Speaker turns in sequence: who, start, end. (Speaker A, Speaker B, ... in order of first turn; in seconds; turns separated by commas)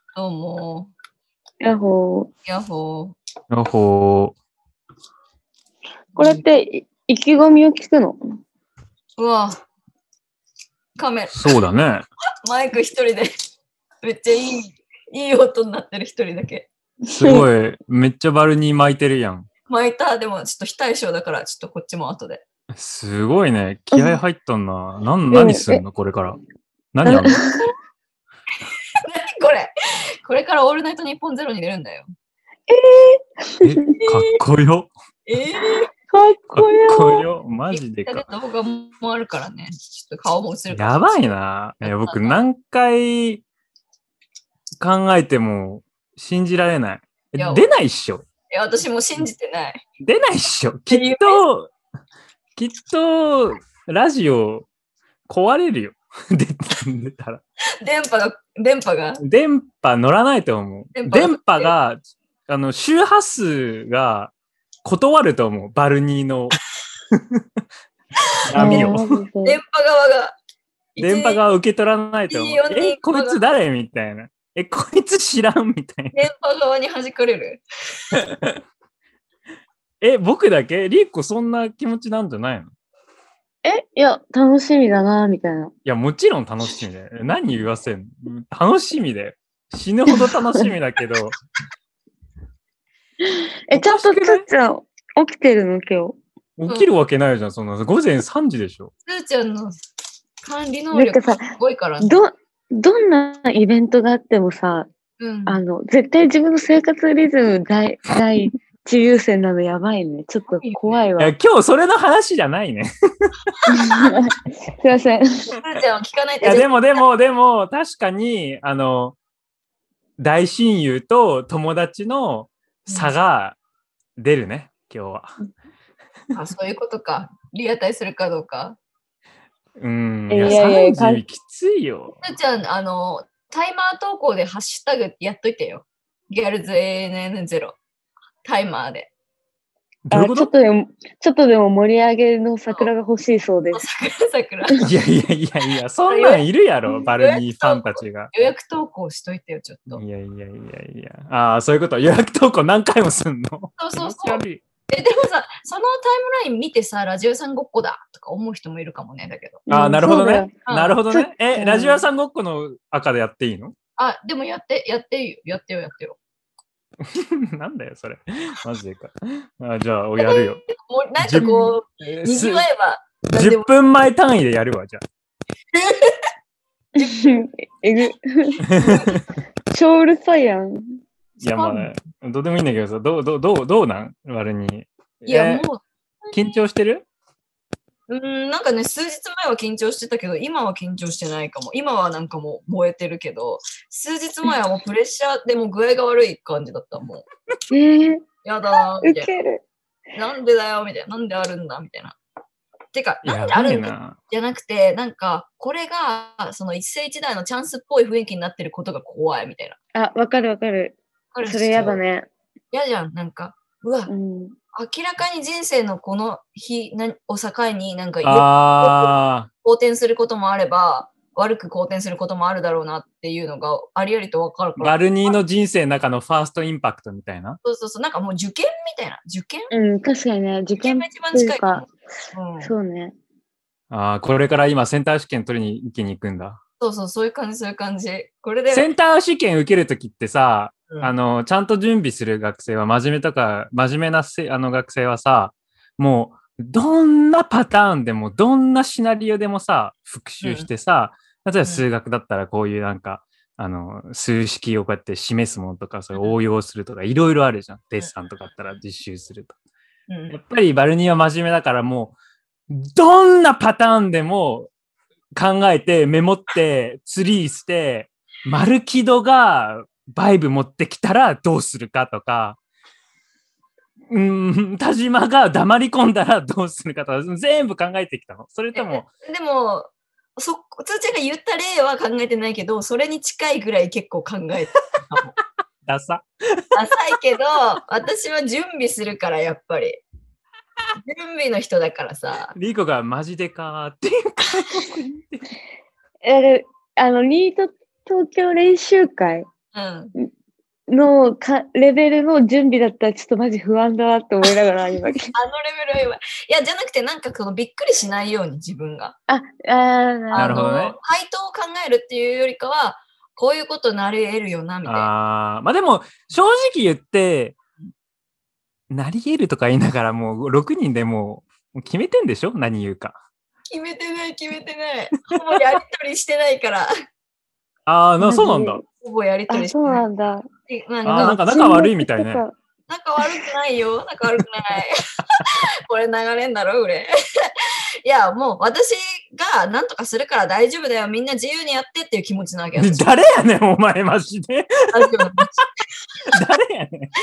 Speaker A: 0.1-0.9, Speaker B: 1.6-2.3, Speaker A: 2.5-3.1, Speaker C: 3.5-4.3, Speaker A: 6.1-6.4, Speaker B: 6.2-8.2, Speaker A: 9.2-9.6, Speaker A: 10.9-11.3, Speaker C: 11.3-12.1, Speaker A: 12.4-13.3, Speaker A: 14.0-16.7, Speaker B: 17.1-17.4, Speaker C: 17.1-19.5, Speaker A: 19.7-22.4, Speaker C: 22.7-26.4, Speaker B: 23.9-24.2, Speaker B: 25.3-25.8, Speaker C: 26.9-27.4, Speaker B: 27.0-27.7, Speaker A: 29.0-32.1, Speaker B: 32.7-33.9, Speaker C: 33.6-34.9, Speaker A: 35.2-35.9, Speaker B: 36.1-37.2, Speaker C: 36.5-38.3, Speaker A: 37.7-41.3, Speaker C: 40.7-43.4, Speaker A: 41.8-42.4, Speaker C: 44.8-48.2, Speaker A: 47.4-47.7, Speaker A: 48.5-49.8, Speaker C: 50.0-51.7, Speaker A: 50.9-51.4, Speaker C: 52.5-54.7, Speaker C: 55.3-57.4, Speaker A: 57.8-59.2, Speaker C: 59.2-64.3, Speaker A: 60.9-61.7, Speaker C: 64.8-66.6, Speaker C: 67.1-67.4, Speaker C: 68.5-69.2, Speaker A: 68.5-70.3, Speaker B: 68.5-69.6, Speaker A: 71.0-71.4, Speaker C: 71.0-76.1, Speaker A: 72.3-73.4, Speaker A: 76.1-77.6, Speaker C: 78.1-78.6, Speaker C: 80.0-82.7, Speaker B: 83.6-85.7, Speaker C: 85.8-91.3, Speaker B: 90.1-90.7, Speaker B: 93.2-96.2, Speaker C: 93.7-94.4, Speaker C: 96.6-98.9, Speaker A: 99.0-99.8, Speaker A: 100.4-102.2, Speaker B: 100.9-104.9, Speaker A: 105.2-105.6, Speaker B: 105.5-111.3, Speaker A: 110.5-111.0, Speaker C: 111.2-113.3, Speaker B: 113.7-115.5, Speaker A: 113.7-114.1, Speaker A: 115.6-116.7, Speaker C: 116.4-119.2, Speaker C: 120.2-123.5, Speaker A: 122.9-123.1, Speaker C: 124.2-125.3, Speaker A: 126.3-128.8, Speaker C: 129.8-132.2, Speaker B: 130.3-131.2, Speaker A: 130.4-130.7, Speaker A: 132.2-137.8, Speaker A: 138.4-139.1, Speaker C: 140.1-140.5, Speaker B: 140.1-143.8, Speaker A: 143.7-144.9, Speaker C: 144.8-148.5, Speaker A: 146.1-146.4, Speaker A: 147.0-150.0, Speaker C: 149.9-154.6, Speaker A: 153.8-159.6, Speaker B: 159.7-160.6, Speaker C: 159.7-163.7, Speaker A: 160.6-161.0, Speaker B: 161.1-162.1, Speaker A: 164.0-166.2, Speaker C: 167.0-170.6, Speaker A: 170.2-173.7, Speaker C: 171.2-172.7, Speaker B: 171.4-171.8, Speaker C: 173.3-175.0, Speaker A: 175.7-176.1, Speaker A: 176.9-177.2, Speaker B: 177.0-178.7, Speaker C: 178.7-179.2, Speaker A: 178.7-179.2, Speaker B: 179.7-181.0, Speaker C: 181.4-185.7, Speaker A: 181.4-181.9, Speaker A: 185.3-186.6, Speaker C: 186.3-187.0, Speaker A: 188.1-197.2, Speaker B: 197.7-198.2, Speaker A: 198.4-199.3, Speaker B: 199.0-199.6, Speaker A: 200.1-202.2, Speaker A: 202.9-209.8, Speaker C: 203.2-204.2, Speaker B: 209.9-212.3, Speaker A: 211.3-212.0, Speaker A: 212.7-214.1, Speaker B: 214.1-214.5, Speaker A: 214.7-225.4, Speaker C: 218.2-219.5, Speaker C: 224.8-227.6, Speaker A: 227.6-229.7, Speaker B: 229.7-231.9, Speaker A: 230.8-232.7, Speaker B: 232.6-233.1, Speaker C: 233.9-236.6, Speaker A: 236.8-238.9, Speaker C: 238.7-259.5, Speaker A: 240.9-241.1, Speaker A: 250.4-250.7, Speaker A: 260.1-260.3, Speaker C: 260.3-262.1, Speaker C: 262.7-264.7, Speaker C: 265.3-272.6, Speaker C: 274.1-279.1, Speaker A: 278.7-285.3, Speaker C: 285.9-286.7, Speaker A: 286.7-290.0, Speaker A: 291.0-292.5, Speaker C: 292.5-295.5, Speaker B: 296.2-299.5, Speaker A: 299.7-300.1, Speaker B: 300.9-305.3, Speaker A: 305.3-309.1, Speaker B: 309.3-310.7, Speaker A: 310.3-315.1, Speaker C: 310.4-311.0, Speaker C: 314.8-317.6, Speaker C: 318.9-323.2, Speaker A: 323.7-326.9, Speaker C: 327.9-328.8, Speaker B: 328.2-328.8, Speaker A: 329.0-330.0, Speaker B: 329.5-330.5, Speaker A: 330.7-331.4, Speaker C: 331.0-332.4, Speaker B: 331.1-332.5, Speaker A: 332.9-337.5, Speaker A: 338.0-343.0, Speaker C: 342.8-345.6, Speaker A: 344.9-345.5, Speaker C: 346.3-347.1